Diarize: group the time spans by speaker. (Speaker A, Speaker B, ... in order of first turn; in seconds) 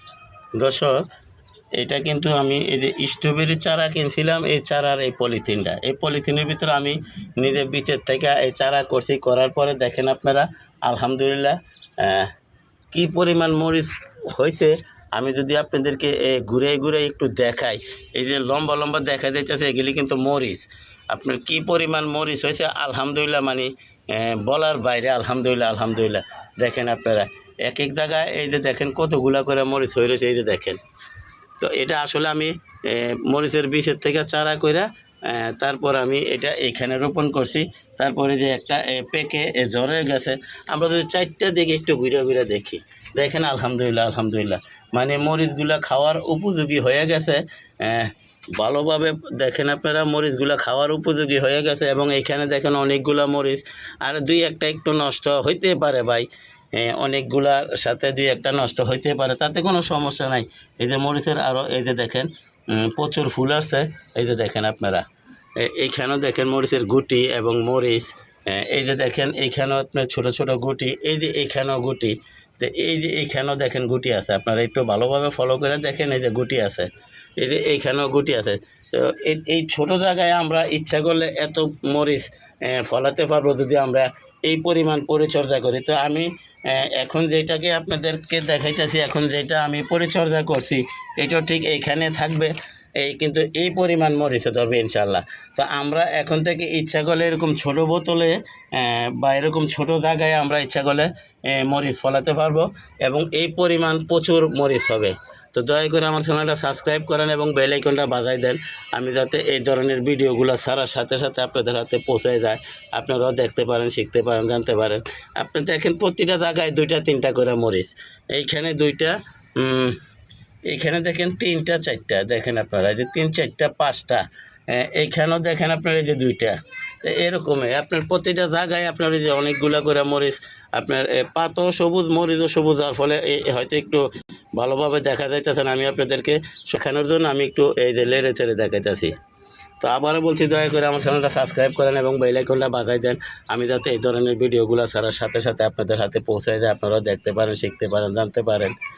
Speaker A: 0.6-1.1, 1.8-12.3, 12.9-30.8, 31.6-65.0, 65.6-120.0, 120.7-139.1, 139.8-148.8